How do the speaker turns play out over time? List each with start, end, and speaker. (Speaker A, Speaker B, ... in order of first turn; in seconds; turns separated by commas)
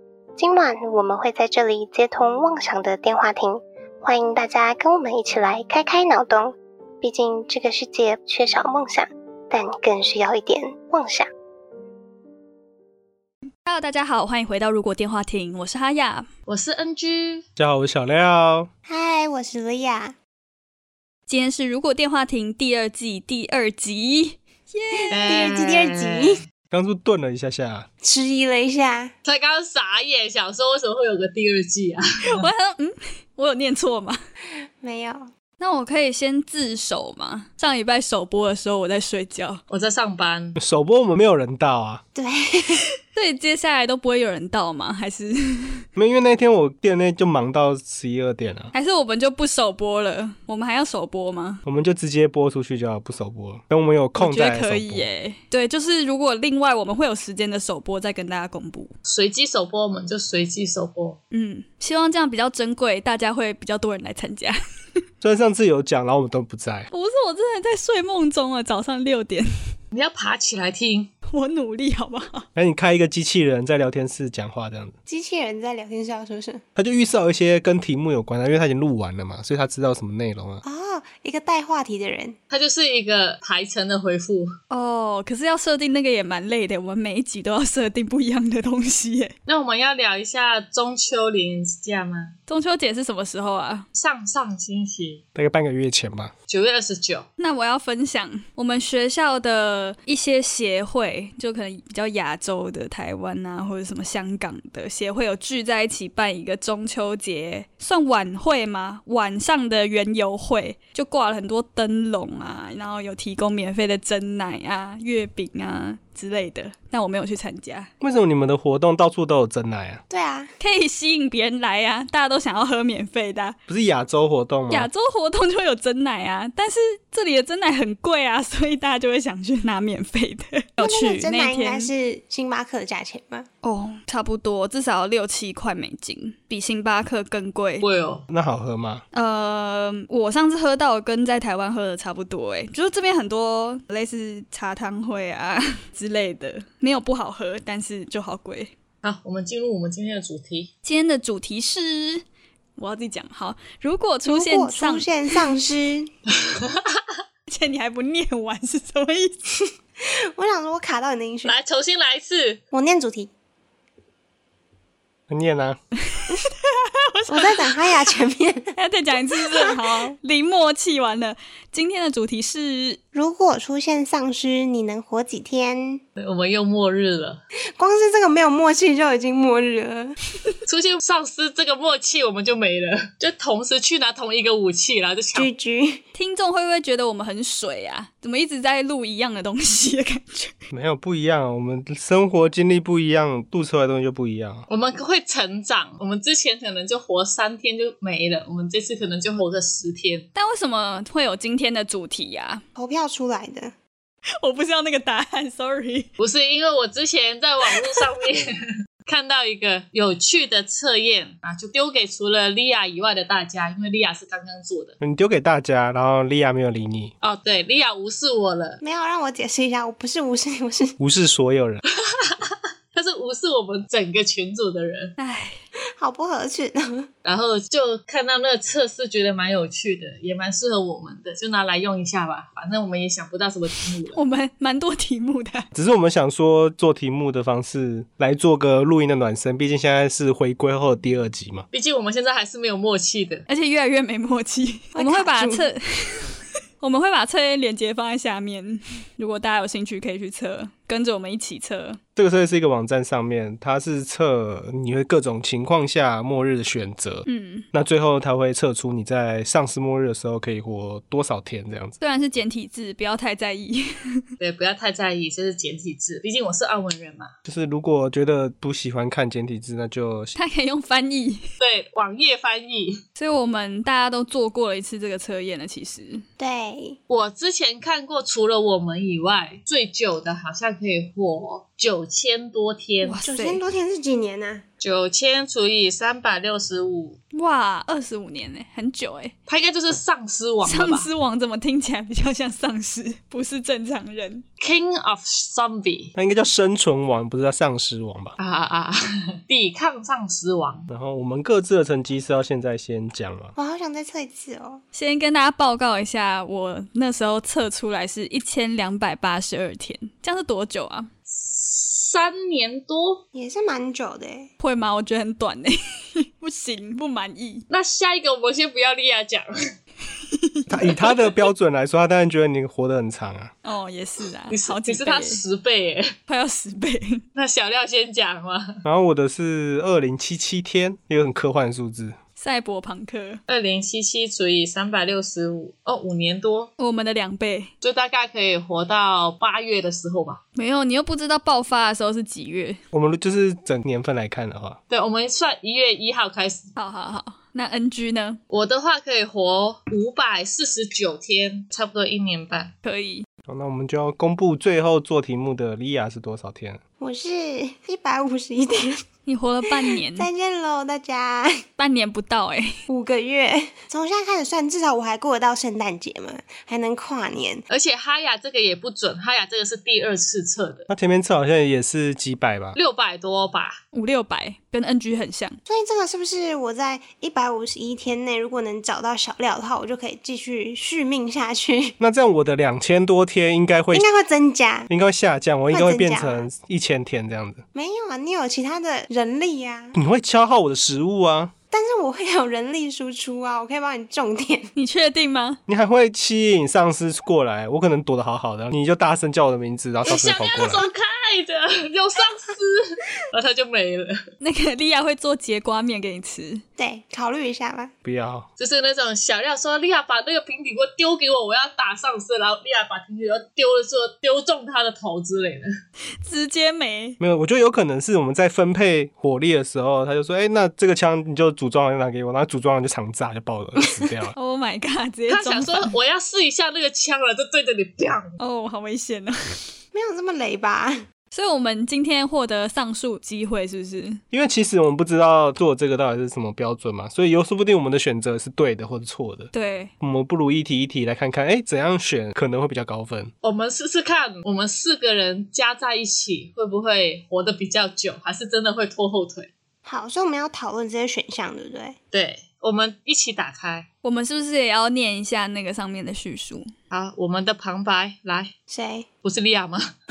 Speaker A: 0.4-11.3, Speaker B: 13.7-16.3, Speaker C: 16.5-17.4, Speaker D: 17.6-18.7, Speaker E: 18.9-20.2, Speaker B: 21.3-25.5, Speaker E: 25.0-26.4, Speaker C: 25.1-26.4, Speaker D: 26.7-27.9, Speaker E: 28.0-29.1, Speaker C: 29.2-32.5, Speaker B: 32.2-34.2, Speaker E: 34.8-35.3, Speaker B: 35.6-39.6, Speaker C: 39.7-40.6, Speaker D: 40.6-42.0, Speaker E: 42.1-42.9, Speaker B: 43.1-45.9, Speaker D: 46.0-48.7, Speaker B: 48.7-51.6, Speaker D: 51.6-55.1, Speaker B: 54.2-58.9, Speaker C: 59.1-61.2, Speaker B: 61.3-64.6, Speaker D: 65.2-66.9, Speaker B: 66.9-69.5, Speaker C: 69.9-71.1, Speaker B: 71.3-72.5, Speaker D: 72.6-74.9, Speaker E: 75.1-76.6, Speaker D: 76.8-80.6, Speaker E: 80.6-82.4, Speaker C: 82.5-84.5, Speaker B: 84.7-89.3, Speaker C: 89.5-92.3, Speaker B: 92.5-93.9, Speaker C: 94.0-95.2, Speaker D: 95.3-96.3, Speaker C: 96.5-97.3, Speaker B: 97.4-117.9, Speaker D: 118.0-120.0, Speaker E: 120.1-120.5, Speaker B: 120.6-123.6, Speaker D: 123.7-124.9, Speaker B: 124.7-131.9, Speaker E: 130.8-133.5, Speaker B: 133.6-137.9, Speaker C: 137.8-138.2, Speaker D: 138.3-139.0, Speaker B: 139.1-148.7, Speaker C: 149.0-150.7, Speaker B: 150.8-152.2, Speaker B: 152.8-155.5, Speaker E: 154.3-156.1, Speaker C: 156.5-157.0, Speaker B: 157.5-159.4, Speaker E: 159.6-161.5, Speaker C: 161.4-162.6, Speaker E: 162.7-163.3, Speaker D: 165.3-165.8, Speaker B: 166.2-167.7, Speaker E: 167.3-168.8, Speaker B: 168.8-173.0, Speaker E: 169.4-170.1, Speaker E: 173.1-176.0, Speaker C: 176.2-177.4, Speaker E: 177.8-180.2, Speaker C: 180.7-185.5, Speaker E: 185.3-186.0, Speaker B: 186.2-190.5, Speaker D: 190.7-194.7, Speaker C: 194.7-200.3, Speaker B: 200.3-202.6, Speaker E: 202.8-203.7, Speaker B: 204.4-206.1, Speaker C: 206.2-208.5, Speaker B: 207.7-208.0, Speaker C: 209.1-214.9, Speaker D: 215.0-217.1, Speaker C: 217.2-218.8, Speaker E: 218.8-221.0, Speaker D: 221.0-221.8, Speaker C: 222.1-225.2, Speaker B: 225.2-225.6, Speaker E: 226.0-227.1, Speaker C: 227.2-234.2, Speaker B: 234.1-235.7, Speaker D: 235.7-241.7, Speaker C: 241.7-243.5, Speaker B: 243.5-252.0, Speaker E: 244.9-245.7, Speaker D: 252.2-262.0, Speaker B: 257.3-257.7, Speaker B: 262.0-264.2, Speaker C: 264.4-267.3, Speaker D: 267.5-270.4, Speaker B: 270.4-271.4, Speaker C: 271.6-273.0, Speaker B: 273.2-276.2, Speaker E: 276.4-277.0, Speaker C: 277.1-283.2, Speaker B: 283.0-283.6, Speaker E: 283.2-284.6, Speaker C: 284.8-287.2, Speaker B: 287.3-289.3, Speaker C: 289.5-291.1, Speaker B: 290.6-294.4, Speaker C: 294.6-296.1, Speaker D: 296.2-298.4, Speaker C: 298.4-300.9, Speaker D: 300.9-303.6, Speaker E: 303.6-304.8, Speaker B: 304.9-311.1, Speaker C: 311.3-313.2, Speaker E: 313.3-314.5, Speaker B: 314.6-317.7, Speaker C: 317.7-319.6, Speaker B: 320.3-320.9, Speaker D: 320.7-323.5, Speaker B: 323.6-325.4, Speaker C: 324.5-326.1, Speaker B: 326.3-327.2, Speaker C: 327.4-328.8, Speaker D: 328.9-332.2, Speaker B: 332.4-333.4, Speaker C: 333.5-336.7, Speaker B: 336.8-337.7, Speaker C: 337.8-340.4, Speaker B: 340.6-342.8, Speaker D: 342.9-344.8, Speaker C: 344.9-346.7, Speaker B: 346.8-348.4, Speaker C: 348.5-352.7, Speaker B: 352.8-353.3, Speaker D: 353.5-356.8, Speaker E: 357.0-359.0, Speaker B: 359.3-360.3, Speaker E: 360.1-361.6, Speaker B: 361.8-362.8, Speaker E: 362.9-367.6, Speaker C: 367.7-370.9, Speaker D: 370.9-372.8, Speaker C: 372.8-373.8, Speaker B: 373.9-375.6, Speaker E: 375.7-382.0, Speaker D: 382.0-384.1, Speaker E: 383.9-384.9, Speaker D: 384.9-387.6, Speaker E: 385.7-386.5, Speaker E: 387.7-390.0, Speaker D: 389.9-391.5, Speaker E: 391.7-394.7, Speaker B: 394.8-395.6, Speaker D: 395.7-400.9, Speaker C: 400.1-404.2, Speaker B: 404.4-406.6, Speaker E: 406.8-407.9, Speaker D: 408.1-408.5, Speaker C: 408.6-415.7, Speaker B: 416.2-417.2, Speaker D: 417.2-424.4, Speaker B: 424.4-425.9, Speaker C: 425.3-428.4, Speaker B: 428.4-429.6, Speaker E: 429.9-431.1, Speaker B: 431.3-434.2, Speaker D: 434.3-443.3, Speaker B: 439.5-439.9, Speaker C: 443.4-449.5, Speaker E: 449.9-452.0, Speaker C: 452.1-453.9, Speaker B: 454.0-456.7, Speaker C: 456.9-458.5, Speaker E: 458.7-459.1, Speaker C: 459.2-459.9